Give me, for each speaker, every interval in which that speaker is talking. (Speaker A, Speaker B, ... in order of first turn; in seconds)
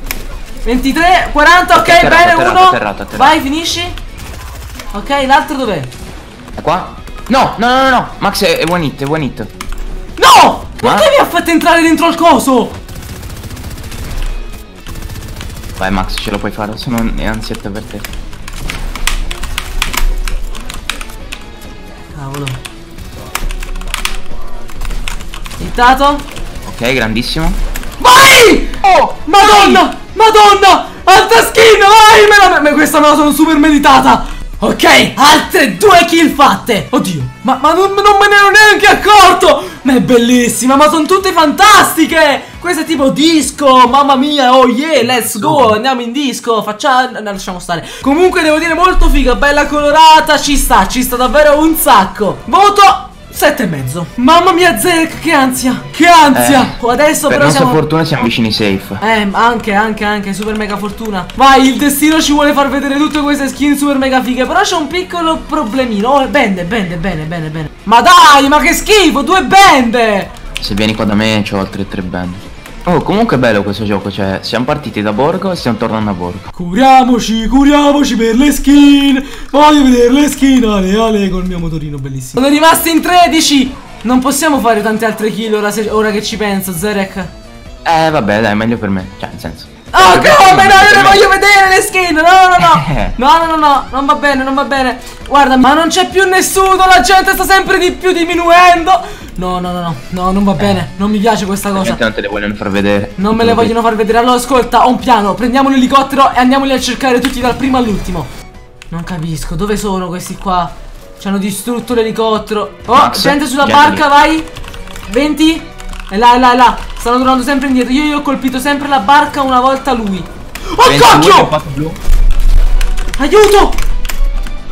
Speaker A: 0.6-4.0, 4.9-5.9, 10.2-12.7, 22.1-22.6, 25.6-26.2, 28.0-57.8, 59.0-70.3, 76.5-87.3, 89.9-102.0, 103.2-108.3, 108.9-114.5, 115.1-121.5, 123.2-123.8
Speaker B: 1.7-3.4, 6.6-9.5, 10.8-11.1, 15.8-18.1, 26.6-27.6, 28.8-29.8, 45.0-45.8, 56.3-56.8, 57.3-59.0, 70.6-76.5, 87.8-91.3, 92.6-93.2, 101.7-103.7, 112.9-114.0, 120.8-122.0